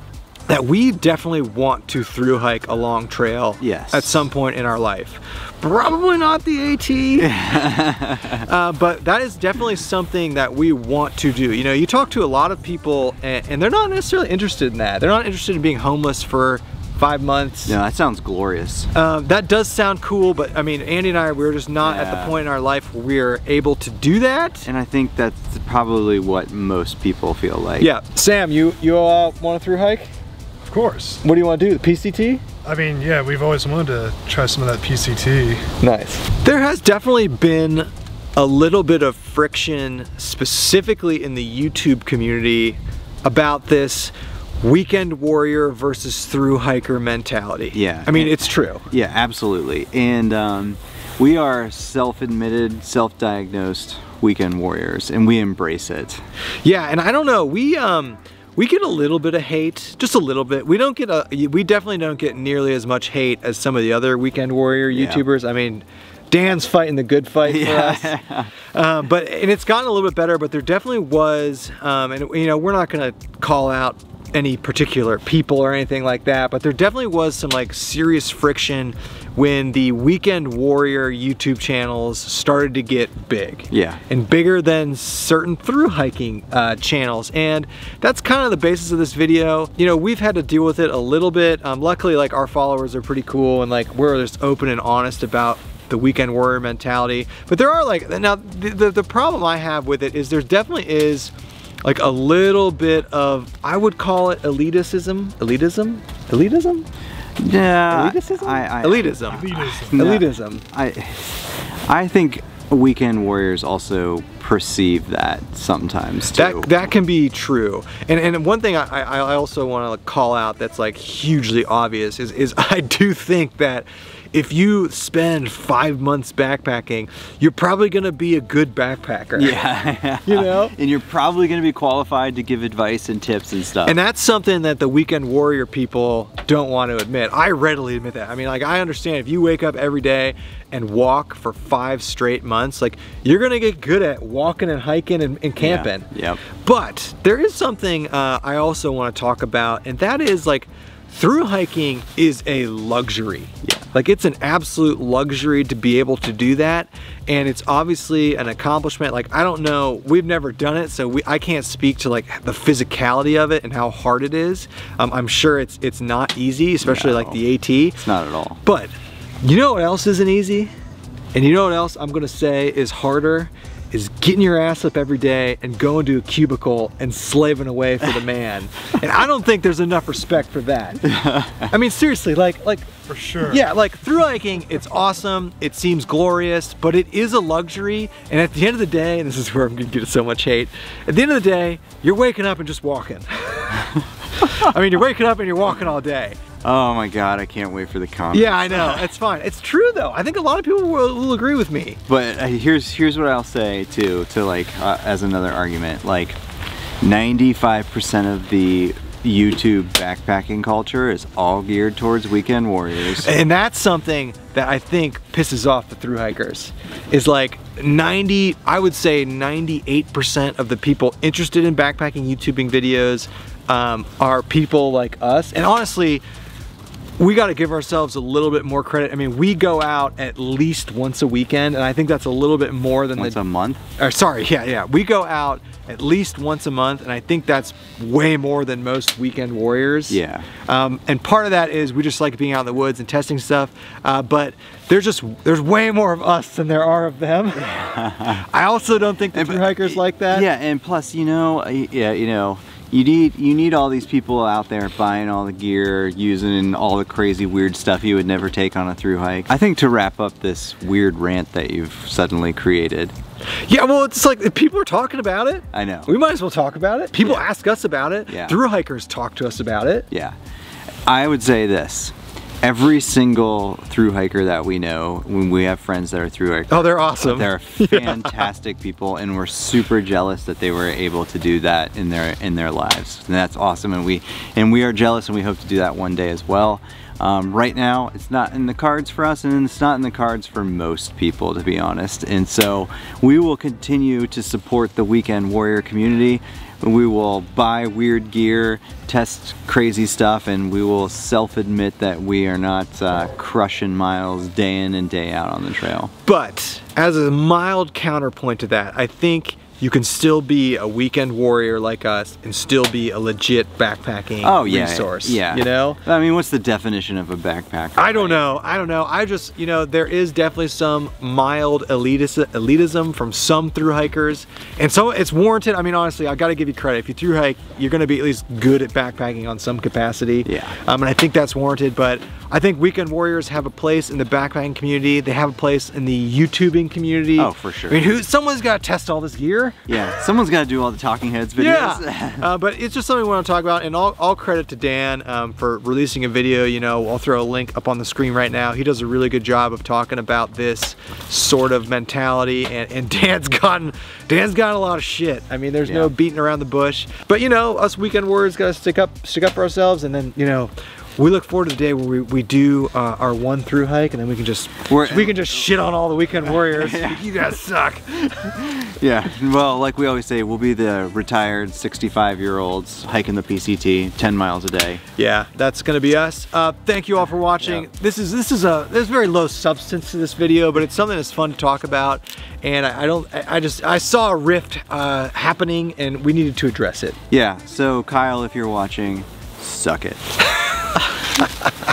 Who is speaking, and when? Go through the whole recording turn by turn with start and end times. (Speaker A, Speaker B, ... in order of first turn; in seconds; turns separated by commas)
Speaker A: 0.5-7.3, Speaker B: 3.6-4.3, Speaker B: 7.2-8.5, Speaker A: 8.3-17.8, Speaker B: 17.7-18.9, Speaker A: 18.9-24.7, Speaker B: 21.8-22.4, Speaker B: 24.6-27.9, Speaker A: 27.8-30.1, Speaker C: 30.7-31.2, Speaker A: 31.2-32.4, Speaker C: 32.6-35.7, Speaker A: 35.8-48.9, Speaker B: 47.7-56.2, Speaker A: 56.6-101.3, Speaker B: 64.9-65.2, Speaker B: 67.4-68.5, Speaker B: 83.7-84.0, Speaker A: 101.8-106.8, Speaker B: 107.4-116.8, Speaker A: 107.9-110.6, Speaker C: 109.3-110.0, Speaker A: 116.3-129.6, Speaker B: 129.3-134.0, Speaker A: 130.2-130.7, Speaker A: 133.8-168.0, Speaker B: 145.6-146.4, Speaker B: 166.8-167.4, Speaker B: 168.0-168.6, Speaker A: 168.6-168.9, Speaker A: 169.4-170.7, Speaker A: 171.3-181.1, Speaker B: 181.0-181.7, Speaker A: 181.7-196.4, Speaker C: 183.1-183.6, Speaker B: 196.6-199.1, Speaker A: 198.3-202.0, Speaker B: 202.1-206.4, Speaker B: 207.0-213.3, Speaker A: 213.1-226.2, Speaker A: 227.2-233.4, Speaker B: 233.2-233.8, Speaker A: 234.0-250.5, Speaker B: 240.1-240.5, Speaker B: 247.6-248.4, Speaker B: 249.3-263.1, Speaker A: 263.6-270.1, Speaker B: 265.7-266.1, Speaker B: 268.3-268.6, Speaker B: 271.1-306.1, Speaker A: 276.7-278.4, Speaker A: 306.2-316.0, Speaker B: 314.4-318.4, Speaker A: 318.0-339.9, Speaker B: 330.4-330.8, Speaker B: 337.4-338.1, Speaker B: 339.9-342.5, Speaker A: 341.6-368.6, Speaker B: 355.8-356.1, Speaker B: 364.9-365.7, Speaker B: 366.4-367.4, Speaker B: 368.4-375.0, Speaker A: 375.1-387.2, Speaker B: 387.3-390.2